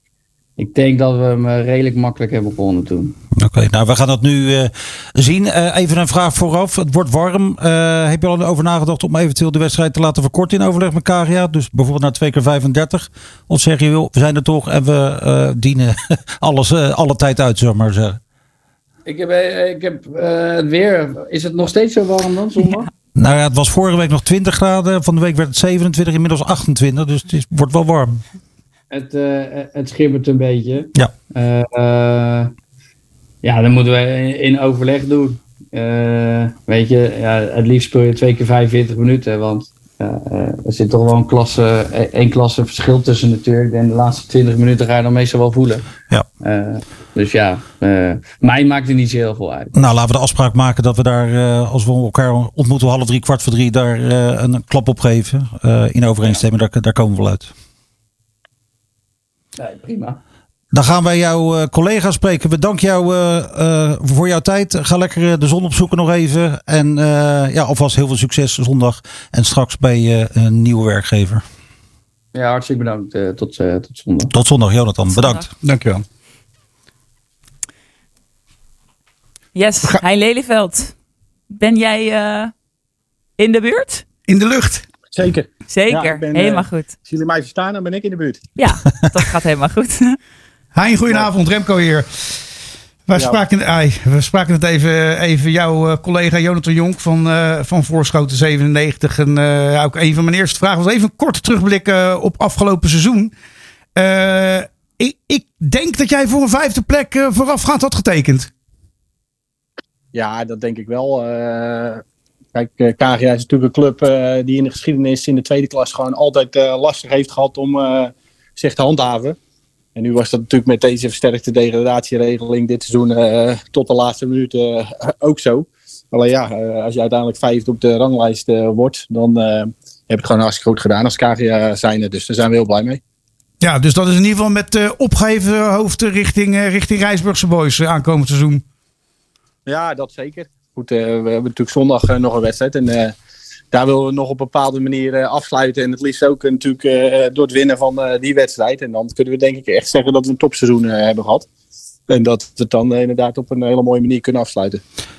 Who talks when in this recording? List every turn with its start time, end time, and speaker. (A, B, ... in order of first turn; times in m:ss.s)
0:00.6-0:03.2 A
0:03.4-0:18.2 B
0:19.1-0:22.9 A
0:23.2-0:28.2 B
0:28.9-0:32.5 A
0:33.4-0:45.9 A
0:46.4-0:49.8 A
0:49.8-0:57.5 B
0:59.6-1:00.2 A
1:00.7-1:11.4 B
1:12.3-1:14.3 A
1:14.3-1:15.5 B
1:15.1-1:15.5 C
1:15.6-1:16.0 D
1:19.6-1:20.9 C
1:21.5-1:22.5 C
1:23.4-1:24.0 C
1:24.3-1:24.9 D
1:25.1-1:28.5 E
1:25.7-1:26.9 C
1:28.6-1:30.2 C
1:30.8-1:32.4 D
1:33.1-1:43.3 D
1:33.2-1:33.4 E
1:44.0-1:48.5 D
1:50.1-1:52.0 E
1:52.5-1:59.4 E
2:00.0-2:13.0 E
2:13.6-2:18.6 D
2:19.7-2:23.2 E
2:23.7-2:31.5 E
2:32.1-2:34.8 E